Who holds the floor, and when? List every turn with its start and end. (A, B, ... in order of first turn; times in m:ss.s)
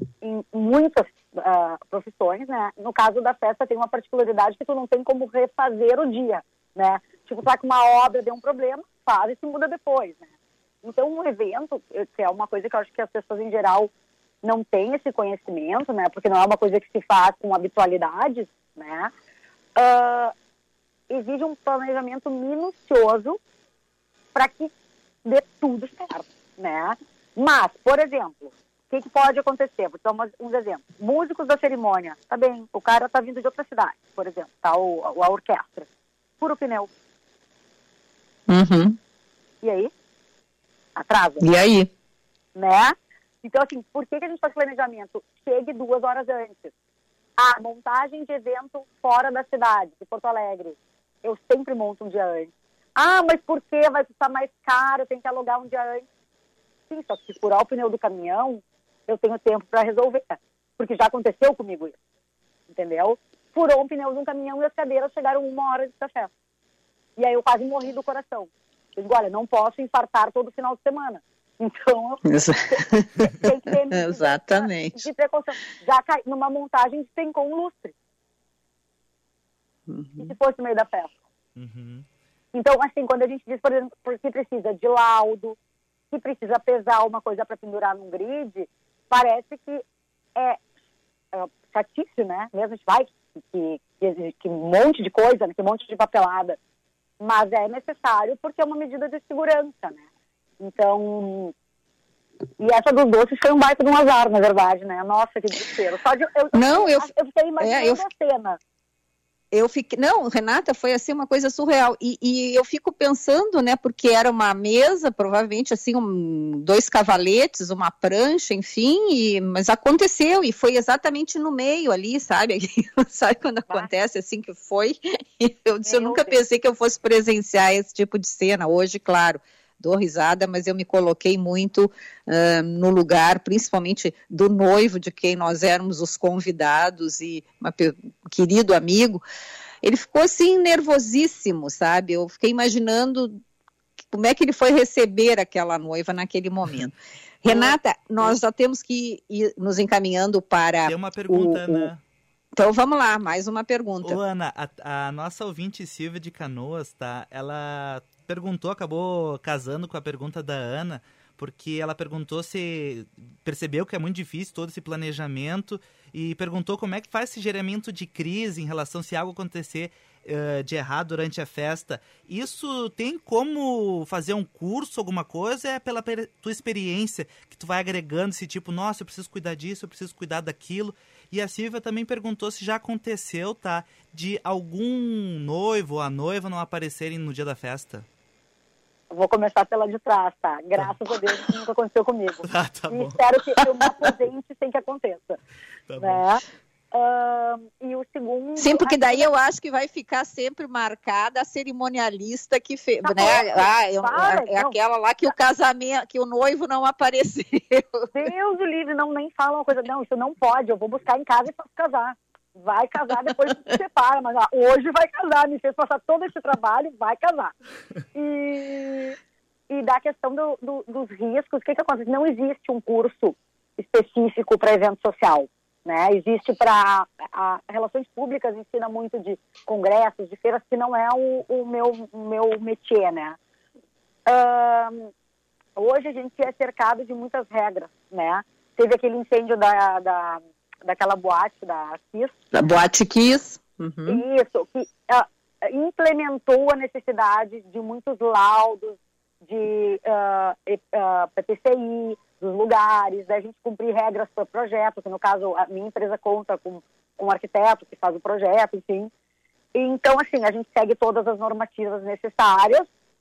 0:00.2-0:10.2 A
0:10.8-0:13.9 A
0:14.4-0:19.1 A
0:19.8-0:20.3 A
0:21.1-0:23.4 A
0:24.3-0:24.7 A
0:25.2-0:35.8 A
0:36.4-0:36.9 A
0:38.5-0:39.0 B
0:39.6-0:39.9 A
0:41.0-0:41.4 A
0:41.4-0:41.9 B
0:42.5-0:46.7 A
0:47.4-0:56.0 A
0:56.9-1:01.9 A
1:02.7-1:06.3 A
1:07.2-1:12.2 A
1:12.2-1:15.0 B
1:12.7-1:17.9 A
1:19.9-1:20.3 B
1:20.2-1:21.1 A
1:21.6-1:22.0 C
1:22.5-1:25.6 A
1:26.1-1:29.8 A
1:30.4-1:30.6 A
1:31.3-1:36.6 A
1:37.2-1:40.0 A
1:40.6-1:41.5 A
1:42.6-1:48.6 A
1:46.5-1:47.1 B
1:47.6-1:48.0 B
1:49.5-2:19.2 B
2:05.8-2:06.4 A
2:19.8-2:23.4 B
2:24.1-2:31.9 B
2:30.8-2:32.0 C
2:32.6-2:34.2 B
2:34.0-3:08.0 C
3:09.1-3:15.4 A
3:12.4-3:13.2 C
3:15.9-3:16.2 C
3:16.0-3:16.4 A
3:16.9-3:19.2 A
3:18.6-3:28.1 B
3:23.0-3:24.7 A
3:28.1-3:37.5 A
3:38.1-3:39.2 A
3:39.7-3:53.4 A
3:54.3-3:55.1 A
3:55.8-4:02.4 A
4:02.5-4:04.2 B
4:04.0-4:19.1 A
4:19.7-4:22.9 A